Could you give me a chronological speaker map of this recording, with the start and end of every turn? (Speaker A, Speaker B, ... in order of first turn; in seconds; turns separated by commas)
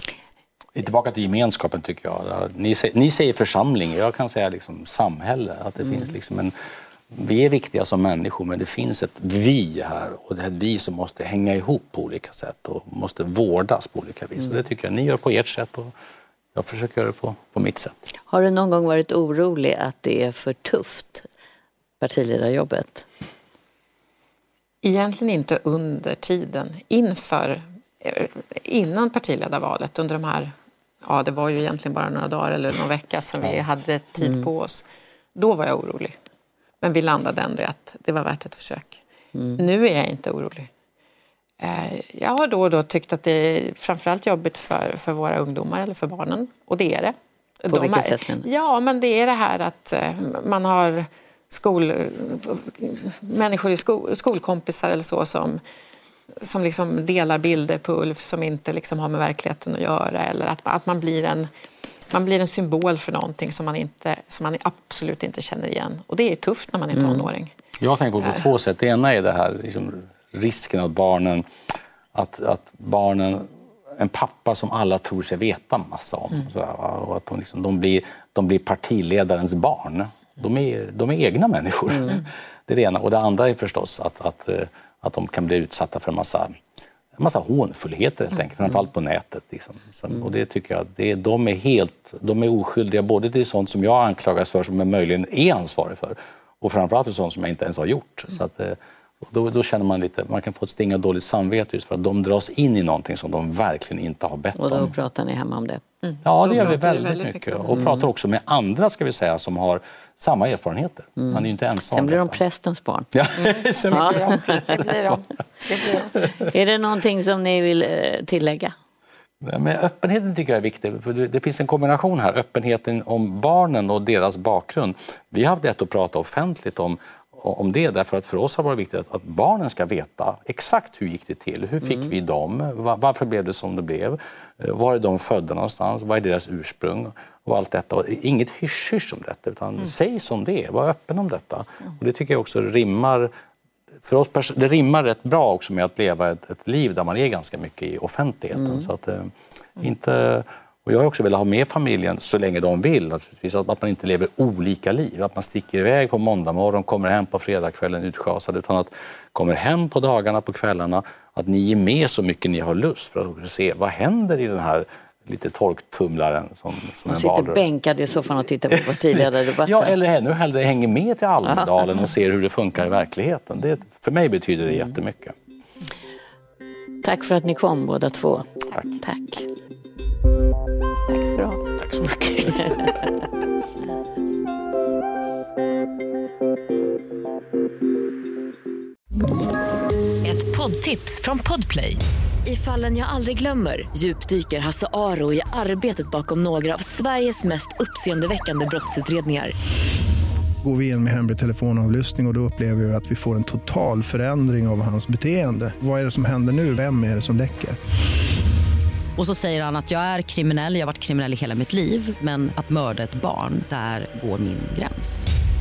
Speaker A: 0.7-6.5, Speaker A: 7.1-15.9, Speaker A: 16.5-18.1, Speaker B: 18.3-21.3, Speaker B: 22.0-23.1, Speaker C: 24.8-36.2, Speaker C: 36.8-39.0, Speaker B: 39.3-39.6, Speaker C: 39.6-40.7, Speaker C: 41.6-55.6, Speaker B: 47.7-48.5, Speaker C: 56.4-61.5, Speaker C: 62.1-67.5, Speaker B: 66.9-67.3, Speaker A: 67.8-71.5, Speaker A: 72.1-86.6, Speaker B: 81.9-82.2, Speaker A: 87.2-104.9, Speaker B: 104.5-105.8, Speaker C: 106.0-107.9, Speaker A: 106.2-112.4, Speaker B: 107.7-108.0, Speaker B: 111.2-113.1, Speaker A: 113.1-115.3, Speaker B: 113.9-115.2, Speaker C: 115.7-116.2, Speaker B: 116.2-118.7, Speaker A: 119.4-143.3, Speaker A: 144.1-167.6, Speaker B: 148.5-148.9, Speaker B: 167.1-169.9, Speaker A: 168.2-175.3, Speaker B: 177.0-178.5, Speaker A: 178.7-179.0, Speaker B: 179.0-179.5, Speaker A: 181.7-182.9, Speaker D: 190.2-199.6, Speaker E: 200.6-207.8, Speaker F: 209.2-215.3